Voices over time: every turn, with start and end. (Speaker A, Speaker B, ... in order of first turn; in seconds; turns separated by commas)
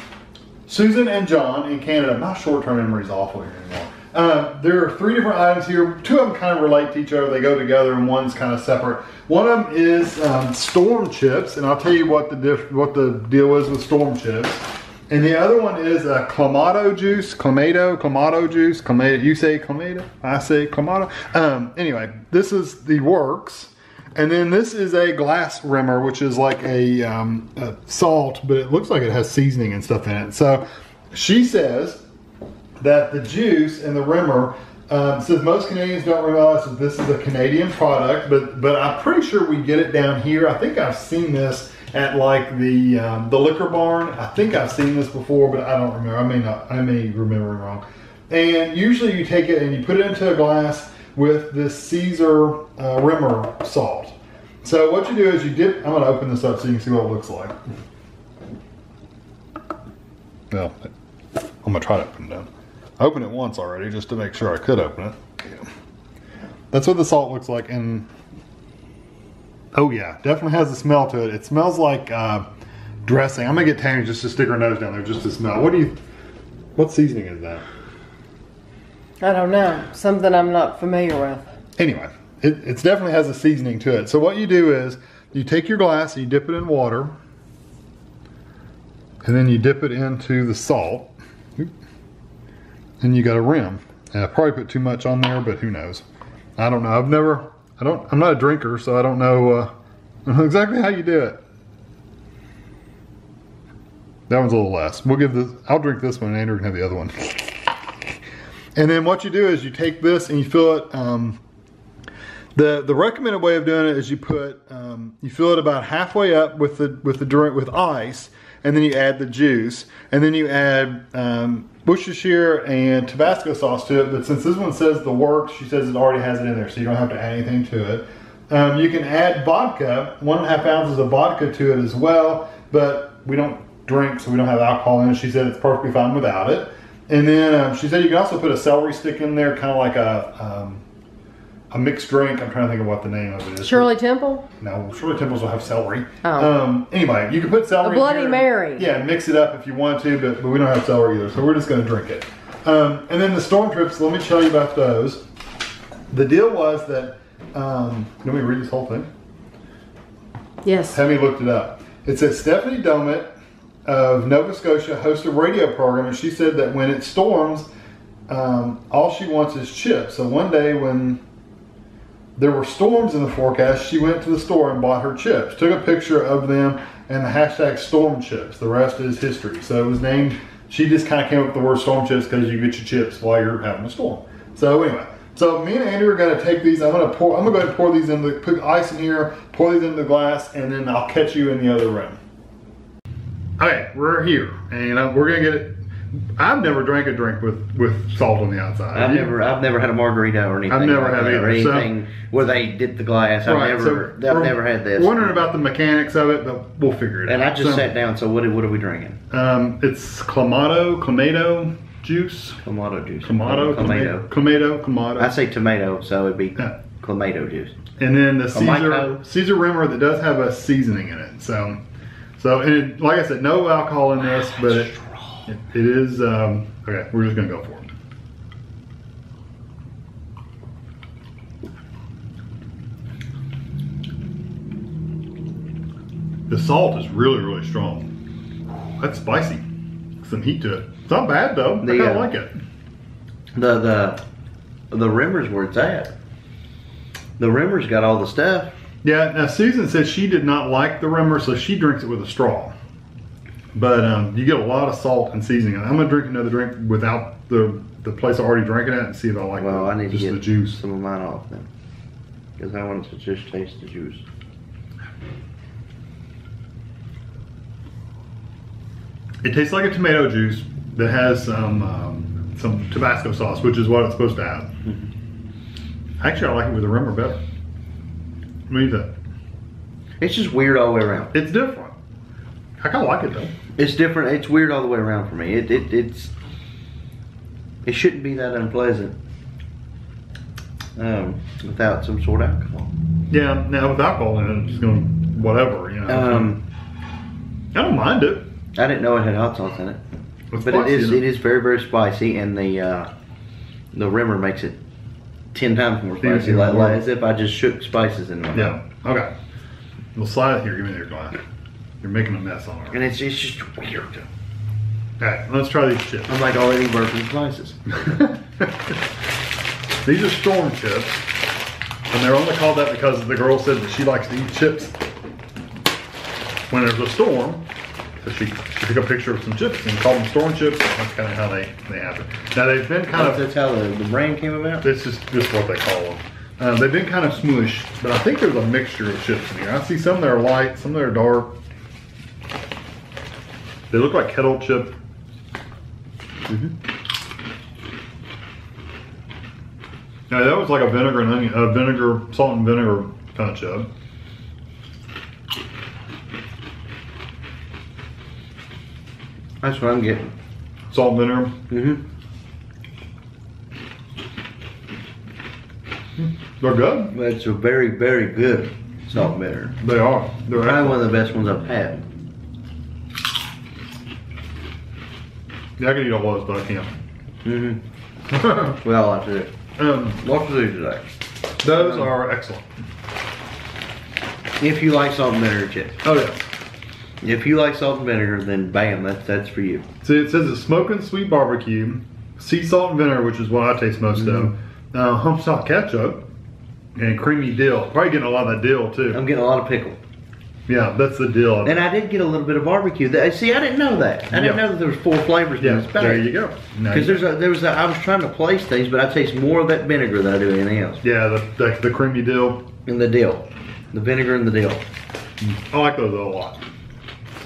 Speaker A: 0.7-32.0, Speaker A: 32.8-57.5, Speaker A: 60.5-60.9, Speaker A: 61.6-62.5, Speaker A: 63.0-65.7, Speaker A: 66.7-68.1, Speaker A: 69.7-72.5, Speaker A: 73.0-75.9, Speaker A: 76.8-77.6, Speaker B: 79.2-81.5, Speaker A: 81.8-87.1, Speaker A: 89.2-91.7, Speaker A: 93.0-96.0, Speaker A: 96.6-99.7, Speaker A: 100.2-101.4, Speaker A: 104.3-107.6, Speaker A: 108.7-111.4, Speaker A: 112.5-140.8, Speaker A: 141.7-143.9, Speaker B: 143.6-144.4, Speaker A: 144.6-155.2, Speaker B: 146.2-146.5, Speaker B: 147.8-148.9, Speaker A: 156.1-159.1, Speaker B: 160.6-161.0, Speaker A: 160.9-163.3, Speaker A: 163.8-167.7, Speaker A: 168.3-171.2, Speaker A: 172.4-192.2, Speaker A: 193.6-195.8, Speaker A: 196.4-199.3, Speaker C: 198.9-205.4, Speaker A: 200.7-201.9, Speaker A: 203.4-207.9, Speaker C: 207.2-209.2, Speaker A: 209.3-212.6, Speaker C: 212.6-214.2, Speaker A: 213.2-215.3, Speaker C: 215.2-217.7, Speaker A: 218.0-221.8, Speaker C: 218.5-219.2, Speaker A: 222.4-227.9, Speaker C: 224.4-225.1, Speaker A: 236.5-238.1, Speaker A: 239.0-239.6, Speaker A: 240.2-242.5, Speaker C: 241.8-242.3, Speaker C: 243.5-244.2, Speaker C: 244.9-246.1, Speaker C: 247.4-248.7, Speaker A: 249.0-252.7, Speaker A: 253.7-260.8, Speaker C: 259.6-261.7, Speaker C: 262.6-264.2, Speaker A: 269.4-274.7, Speaker A: 276.2-277.4, Speaker A: 278.7-279.1, Speaker C: 280.2-281.3, Speaker A: 281.3-281.9, Speaker A: 282.8-283.5, Speaker C: 283.8-286.3, Speaker C: 287.8-289.1, Speaker C: 290.9-292.9, Speaker A: 293.3-296.5, Speaker C: 296.1-296.6, Speaker A: 297.7-298.5, Speaker C: 298.7-300.0, Speaker A: 300.5-301.2, Speaker C: 300.6-303.1, Speaker C: 303.9-304.8, Speaker C: 305.5-308.8, Speaker A: 306.2-307.0, Speaker A: 308.5-309.3, Speaker A: 310.1-311.4, Speaker A: 312.0-313.0, Speaker C: 312.9-314.3, Speaker A: 315.2-316.3, Speaker C: 316.3-317.8, Speaker A: 317.9-318.9, Speaker A: 320.0-321.2, Speaker A: 322.1-324.9, Speaker A: 326.7-327.6, Speaker A: 328.2-333.4, Speaker C: 333.1-334.9, Speaker A: 334.8-341.5, Speaker A: 343.9-344.9, Speaker A: 350.3-353.9, Speaker C: 359.6-360.3, Speaker A: 360.9-361.6, Speaker C: 361.7-362.0, Speaker A: 366.2-367.1, Speaker C: 367.1-369.8, Speaker A: 369.8-371.1, Speaker C: 370.5-372.0, Speaker A: 375.8-376.9, Speaker C: 377.4-377.8, Speaker A: 378.3-378.8, Speaker C: 378.8-379.5, Speaker A: 379.8-380.2, Speaker C: 380.2-381.1, Speaker A: 381.6-382.7, Speaker C: 381.8-382.1, Speaker C: 384.6-386.0, Speaker A: 386.0-386.4, Speaker C: 387.2-389.9, Speaker A: 390.0-396.2, Speaker C: 394.1-394.5, Speaker A: 396.9-399.2, Speaker C: 399.1-400.0, Speaker A: 400.7-401.8, Speaker C: 401.6-406.3, Speaker A: 404.3-404.6, Speaker A: 405.6-407.3, Speaker C: 406.9-411.0, Speaker A: 411.0-412.6, Speaker C: 412.9-414.8, Speaker A: 415.4-416.6